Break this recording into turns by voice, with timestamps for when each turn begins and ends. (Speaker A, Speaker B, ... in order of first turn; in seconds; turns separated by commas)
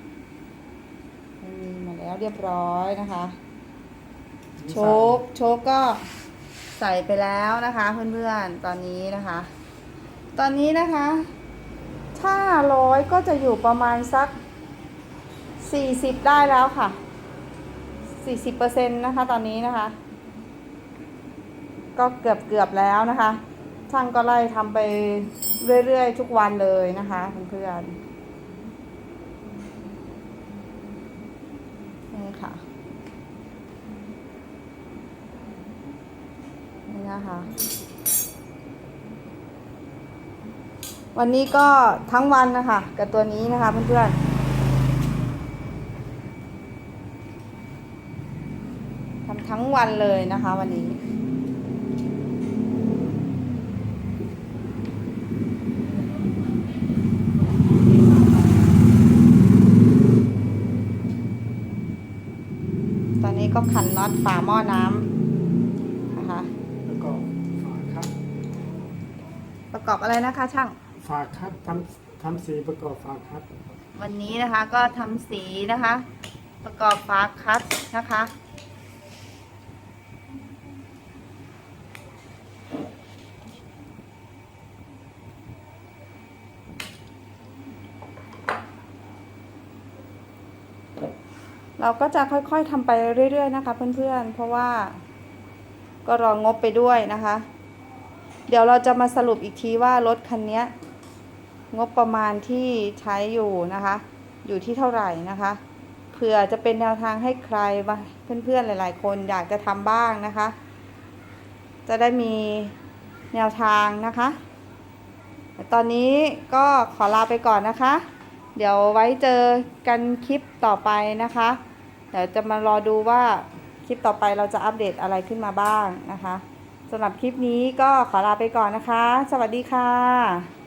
Speaker A: 1.4-3.4, Speaker B: 4.6-5.2, Speaker A: 4.7-6.1, Speaker A: 6.8-9.5, Speaker A: 10.4-11.3, Speaker A: 12.2-14.4, Speaker A: 15.6-17.0, Speaker A: 18.2-20.0, Speaker A: 22.0-28.0, Speaker A: 32.1-32.6, Speaker A: 36.9-37.5, Speaker A: 41.1-44.2, Speaker A: 49.3-51.0, Speaker A: 63.2-65.1, Speaker A: 66.1-66.5, Speaker B: 66.8-68.1, Speaker A: 69.7-70.8, Speaker B: 71.0-73.5, Speaker A: 74.0-76.1, Speaker A: 76.6-78.3, Speaker A: 91.8-95.0, Speaker A: 96.0-97.5, Speaker A: 98.5-100.7, Speaker A: 101.7-105.6, Speaker A: 106.1-110.5, Speaker A: 111.9-112.8, Speaker A: 113.3-114.4, Speaker A: 115.6-118.0, Speaker A: 118.6-121.6, Speaker A: 122.1-130.5